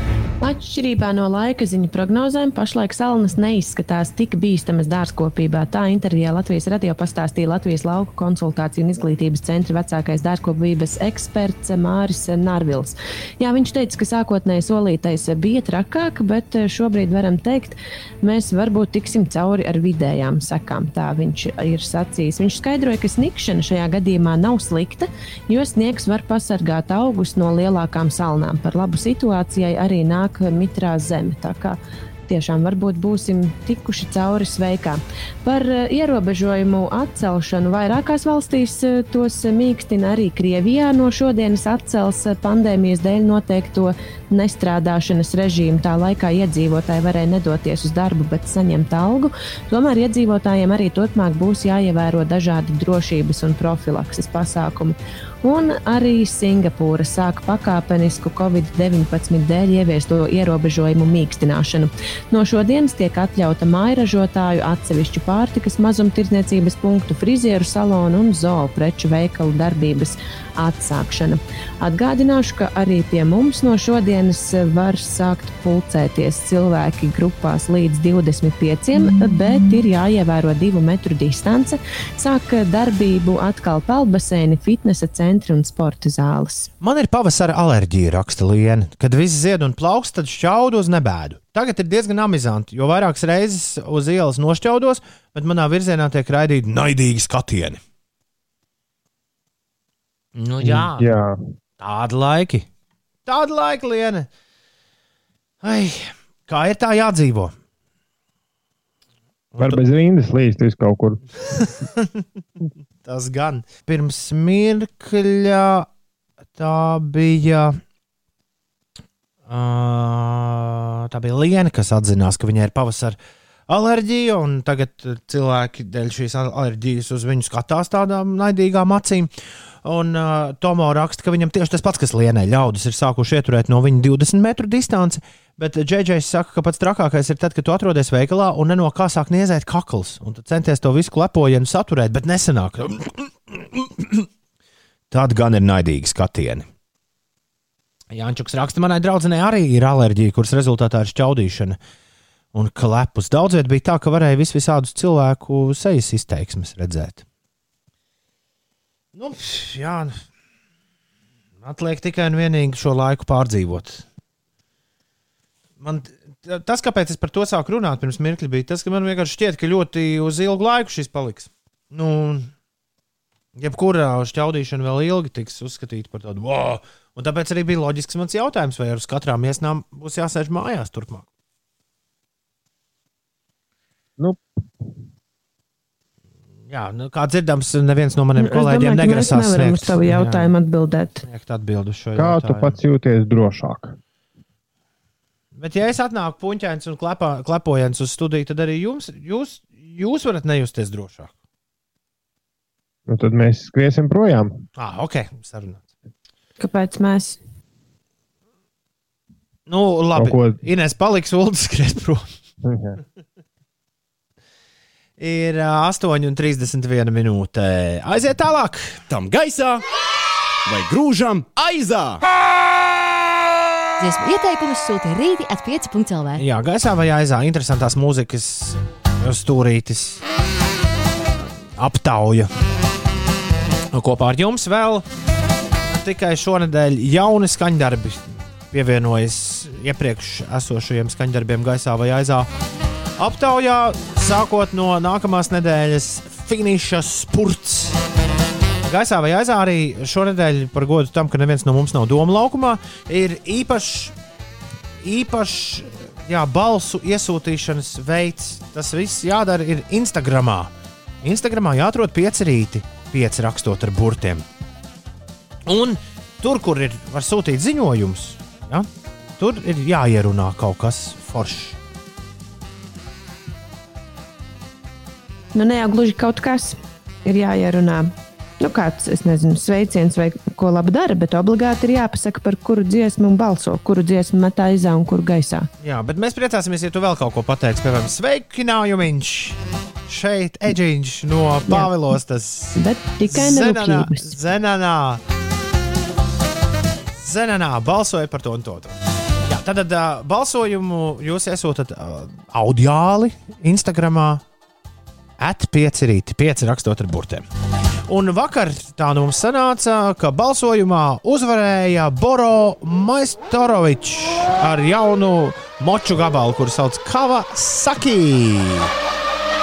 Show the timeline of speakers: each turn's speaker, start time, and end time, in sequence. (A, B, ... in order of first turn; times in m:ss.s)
0:00.4-1:26.7 A
1:26.8-1:37.8 B
1:40.3-1:41.1 B
1:40.6-1:41.4 C
1:41.8-1:42.7 B
1:43.2-1:44.3 B
1:45.6-1:47.5 B
1:49.5-1:49.8 B
1:49.6-1:51.2 C
1:51.6-1:52.2 B
1:53.0-1:55.9 B
1:56.5-1:57.8 B
1:59.5-2:03.2 B
2:03.7-2:09.3 B
2:09.8-2:24.3 B
2:25.1-2:26.6 B
2:28.1-2:31.8 B
2:32.5-2:37.2 B
2:39.1-2:40.2 B
2:41.6-2:44.0 B
2:45.8-2:52.5 B
2:53.6-3:01.2 B
3:04.2-3:04.4 C
3:06.7-3:10.5 B
3:08.3-3:11.2 A
3:11.2-3:12.8 B
3:12.2-3:14.0 C
3:15.6-3:21.3 B
3:23.1-3:24.6 C
3:24.8-3:25.9 B
3:26.6-3:27.4 A
3:29.7-3:32.3 B
3:30.2-3:30.6 C
3:32.6-3:33.0 C
3:35.2-3:39.0 B
3:39.1-3:39.8 D
3:40.6-3:42.2 D
3:44.0-3:46.4 E
3:46.3-3:50.2 B
3:51.8-3:52.5 B
3:53.9-3:55.0 B
3:55.9-4:02.5 B
4:03.2-4:08.0 B
4:08.9-4:14.1 B
4:15.0-4:24.4 B
4:25.7-4:31.8 B
4:35.5-4:45.7 A
4:45.8-4:49.6 B
4:50.1-4:52.8 B
4:52.8-4:54.3 A
4:53.3-4:55.2 B
4:57.2-4:58.9 B
4:59.4-5:04.4 B
5:05.4-5:07.4 B
5:08.1-5:18.9 B